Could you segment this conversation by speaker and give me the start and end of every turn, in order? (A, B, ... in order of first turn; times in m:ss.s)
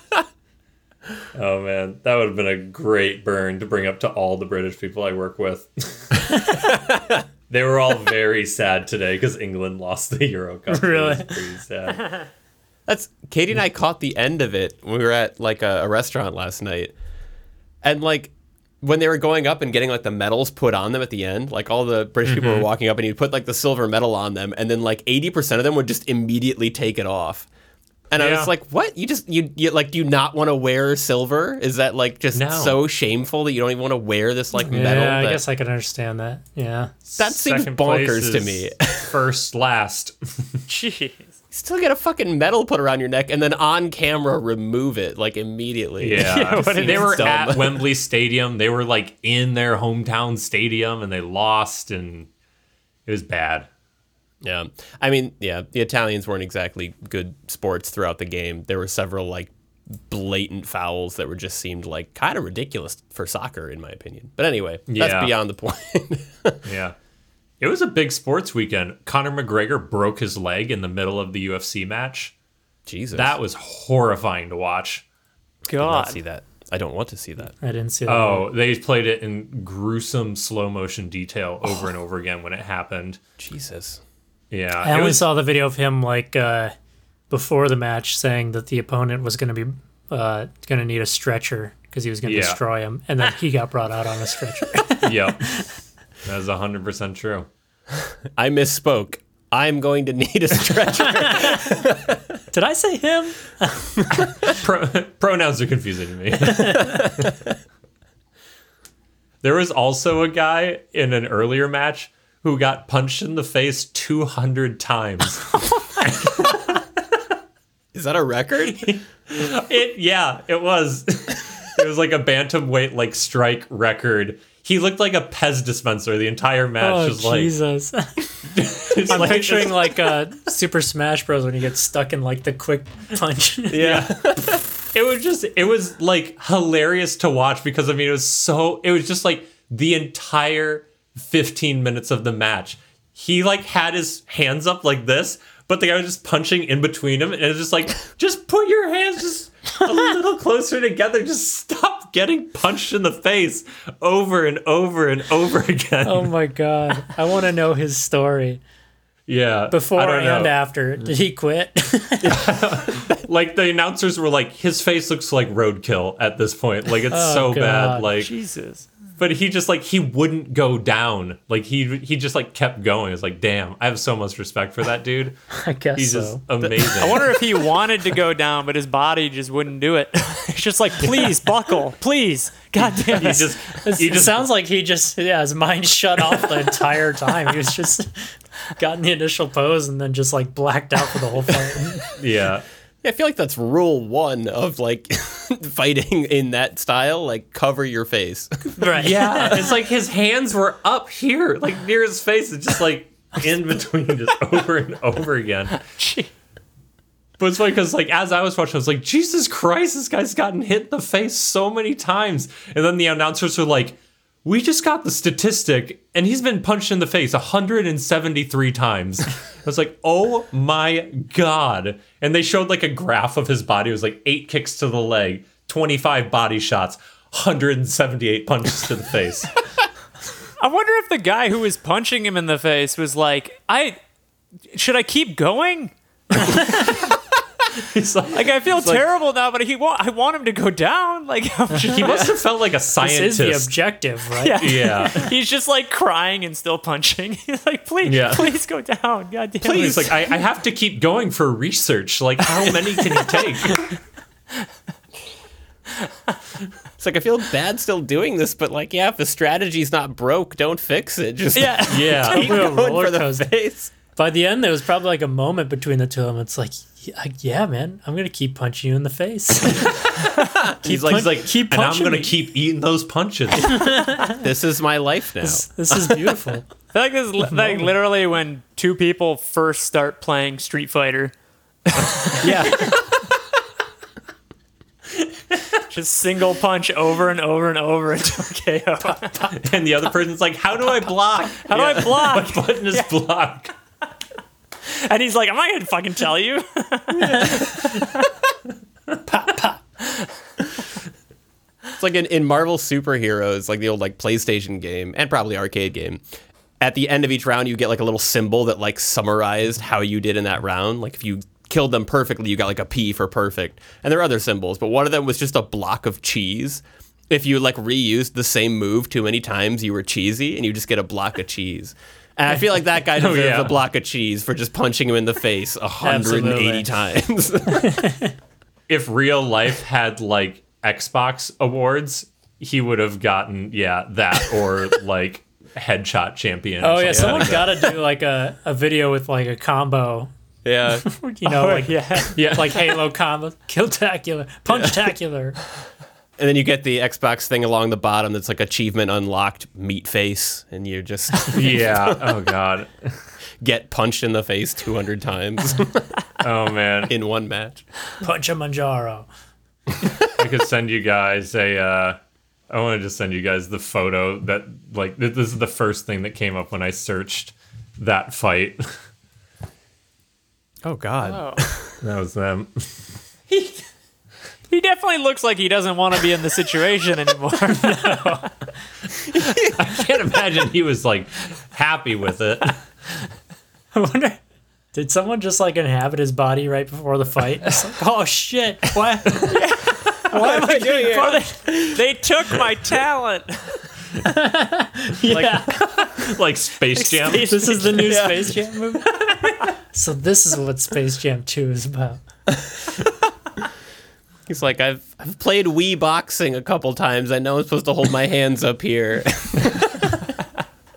0:01.3-0:06.7 A
0:07.5-0:12.2 A
0:10.7-0:11.4 B
0:12.9-0:16.9 C
0:17.8-0:27.5 C
0:22.2-0:22.6 A
0:28.1-0:35.4 C
0:28.2-0:28.5 A
0:32.3-0:32.8 A
0:34.6-0:36.9 B
0:37.2-0:40.6 A
0:37.2-0:39.2 C
0:40.7-0:41.3 D
0:41.5-0:47.9 C
0:46.0-0:52.3 A
0:46.2-0:47.4 D
0:53.0-0:53.7 A
0:54.4-1:06.6 C
1:04.9-1:05.3 A
1:06.6-1:06.9 A
1:07.6-1:12.3 A
1:12.8-1:13.4 C
1:13.1-1:15.0 A
1:15.7-1:16.2 D
1:15.7-1:17.5 C
1:17.6-1:18.4 B
1:18.0-1:23.2 A
1:23.4-1:24.0 C
1:24.5-1:25.3 A
1:24.8-1:26.7 B
1:27.3-1:35.6 B
1:32.2-1:32.6 A
1:35.0-1:35.6 A
1:36.2-1:37.5 A
1:38.4-1:42.2 C
1:42.5-1:44.2 B
1:44.4-1:47.4 A
1:49.4-1:56.8 A
1:57.9-1:59.0 C
1:58.8-2:07.5 A
2:06.8-2:08.4 B
2:08.6-2:10.2 A
2:09.0-2:13.9 B
2:09.2-2:09.5 C
2:13.7-2:14.6 C
2:13.8-2:36.3 A
2:36.0-2:38.6 B
2:39.3-2:40.5 A
2:39.7-2:42.4 B
2:42.2-2:48.3 A
2:47.1-2:48.1 B
2:48.2-2:48.9 D
2:49.2-2:55.4 A
2:55.5-2:56.4 B
2:56.0-2:57.4 A
2:56.6-2:56.9 C
2:57.0-3:03.6 D
3:03.0-3:04.4 A
3:03.8-3:08.1 B
3:08.7-3:12.0 B
3:12.2-3:12.6 A
3:13.0-3:19.0 C
3:18.8-3:19.7 B
3:18.9-3:25.7 A
3:25.7-3:26.3 D
3:27.4-3:49.5 A
3:50.6-3:54.0 D
3:54.7-3:57.1 D
3:57.8-3:59.0 A
3:58.3-4:02.3 D
4:01.9-4:03.7 A
4:03.0-4:05.3 B
4:04.3-4:10.3 D
4:04.6-4:05.2 A
4:08.0-4:08.5 A
4:09.6-4:10.1 C
4:09.6-4:13.9 A
4:12.4-4:14.0 D
4:17.0-4:23.9 C
4:21.5-4:22.6 D
4:21.9-4:22.5 A
4:22.3-4:23.5 B
4:24.1-4:30.3 B
4:30.8-4:32.4 B
4:30.8-4:33.8 A
4:33.6-4:34.4 B
4:34.2-4:35.6 C
4:35.4-4:36.7 B
4:36.9-4:41.3 D
4:42.0-4:42.9 D
4:42.4-4:43.0 C
4:45.9-4:49.6 D
4:49.5-4:53.7 A
4:51.6-4:53.1 D
4:54.9-4:58.3 D
4:59.2-4:59.8 B
5:02.0-5:06.2 C
5:06.8-5:28.0 C
5:23.2-5:23.7 A
5:26.0-5:26.9 B
5:27.8-5:28.3 B
5:28.9-5:37.7 A
5:36.8-5:40.3 B
5:37.1-5:37.7 C
5:40.6-5:41.0 C
5:41.0-5:45.6 B
5:41.4-5:42.4 D
5:42.3-5:43.0 A
5:44.7-5:45.0 C
5:46.4-5:52.4 C
5:51.5-5:53.2 A
5:53.6-5:56.1 C
5:56.4-5:57.1 A
5:57.1-5:57.8 C
5:58.2-5:59.3 B
6:00.2-6:02.2 A
6:02.7-6:08.8 A
6:10.8-6:12.0 C
6:11.2-6:11.6 D
6:12.0-6:12.9 A
6:14.7-6:18.4 D
6:17.8-6:18.4 B
6:19.2-6:22.8 A
6:23.9-6:24.4 B
6:24.9-6:29.6 B
6:29.5-6:33.8 D
6:30.2-6:32.0 C
6:30.3-6:31.4 B
6:34.2-6:35.9 B
6:35.3-6:37.8 A
6:36.9-6:38.3 D
6:37.4-6:39.2 B
6:38.1-6:38.6 C
6:39.9-6:42.2 B
6:44.5-6:50.1 C